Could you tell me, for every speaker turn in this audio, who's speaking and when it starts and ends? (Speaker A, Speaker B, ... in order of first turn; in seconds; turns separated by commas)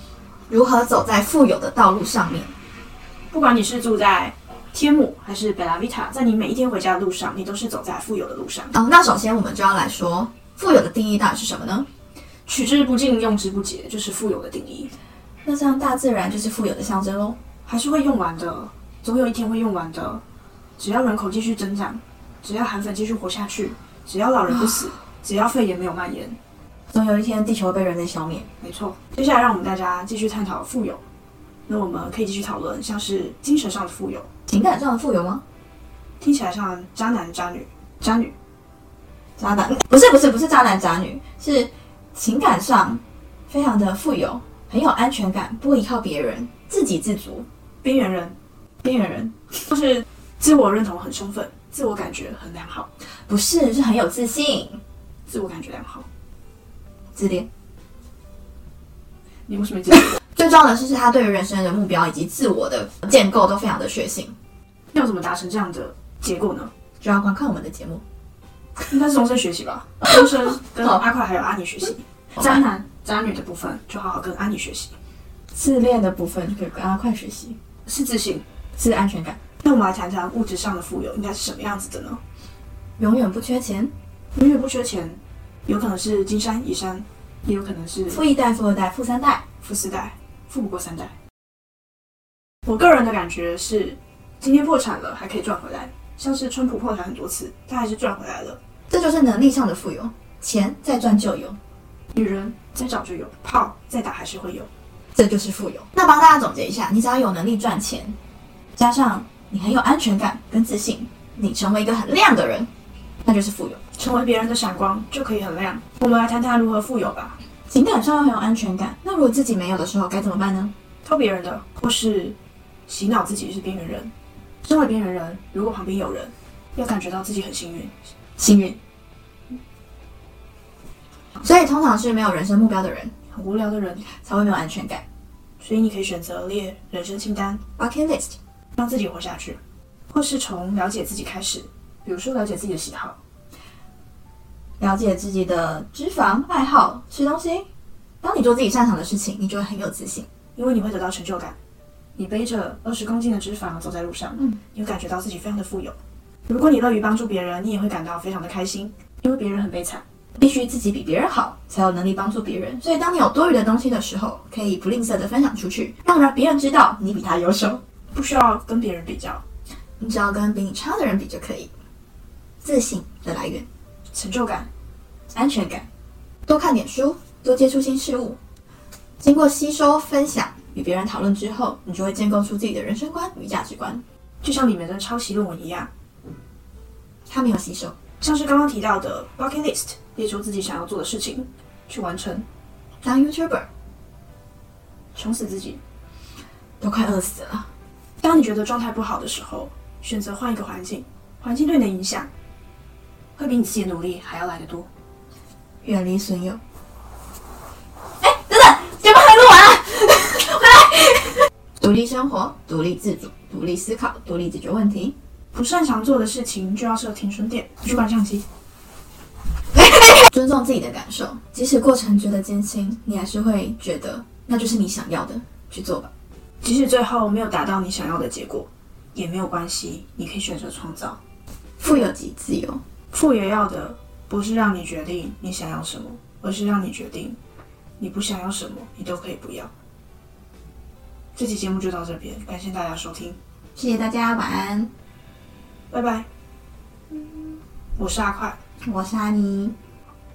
Speaker A: 0.5-2.5, Speaker B: 3.3-8.7, Speaker A: 8.7-11.8, Speaker B: 12.4-14.9, Speaker A: 15.4-17.4, Speaker B: 17.6-20.2, Speaker B: 20.8-26.4, Speaker A: 26.9-28.5, Speaker B: 28.6-31.0, Speaker B: 31.7-34.3, Speaker A: 34.5-35.4, Speaker B: 36.2-38.3, Speaker A: 39.4-47.5, Speaker B: 47.8-48.4, Speaker A: 48.8-49.6, Speaker B: 49.7-52.9, Speaker A: 53.3-54.8, Speaker B: 55.3-56.1, Speaker A: 57.1-57.5, Speaker B: 59.5-60.2, Speaker A: 60.3-64.3, Speaker B: 64.9-66.7, Speaker A: 67.0-68.0, Speaker B: 68.9-74.9, Speaker A: 75.5-77.6, Speaker B: 77.8-78.5, Speaker A: 78.8-79.4, Speaker B: 79.6-82.2, Speaker A: 83.0-83.9, Speaker B: 84.3-88.2, Speaker A: 88.1-89.4, Speaker B: 89.6-91.1, Speaker B: 92.7-98.6, Speaker A: 98.9-101.6, Speaker B: 102.1-104.7, Speaker A: 105.1-108.2, Speaker A: 108.8-112.7, Speaker A: 113.2-113.8, Speaker B: 114.0-117.4, Speaker A: 117.7-120.7, Speaker B: 121.0-124.1, Speaker B: 124.6-128.0, Speaker A: 128.4-128.8, Speaker A: 131.4-133.1, Speaker B: 133.3-134.1, Speaker A: 134.1-135.0, Speaker B: 135.6-137.6, Speaker A: 137.8-138.4, Speaker B: 138.8-139.6, Speaker B: 140.1-143.2, Speaker A: 144.8-147.7, Speaker A: 148.2-150.3, Speaker B: 150.5-151.6, Speaker B: 152.2-155.9, Speaker B: 156.5-160.0, Speaker A: 160.4-167.8, Speaker B: 168.1-169.4, Speaker A: 170.0-171.7, Speaker A: 172.6-173.7, Speaker B: 174.1-174.7, Speaker A: 175.3-175.9, Speaker A: 176.4-178.4, Speaker A: 179.2-184.0, Speaker B: 184.4-185.9, Speaker A: 187.3-188.0, Speaker B: 188.2-192.4, Speaker A: 193.0-193.7, Speaker B: 195.1-195.8, Speaker A: 196.8-197.7, Speaker B: 198.2-202.3, Speaker B: 203.3-204.9, Speaker A: 205.8-206.6, Speaker A: 208.2-215.1, Speaker B: 215.5-218.4, Speaker A: 219.7-226.1, Speaker B: 226.6-231.2, Speaker A: 231.8-232.8, Speaker B: 233.1-237.4, Speaker B: 238.0-239.7, Speaker B: 241.3-243.4, Speaker A: 243.8-244.9, Speaker B: 245.9-246.3, Speaker B: 248.0-248.6, Speaker A: 248.8-249.8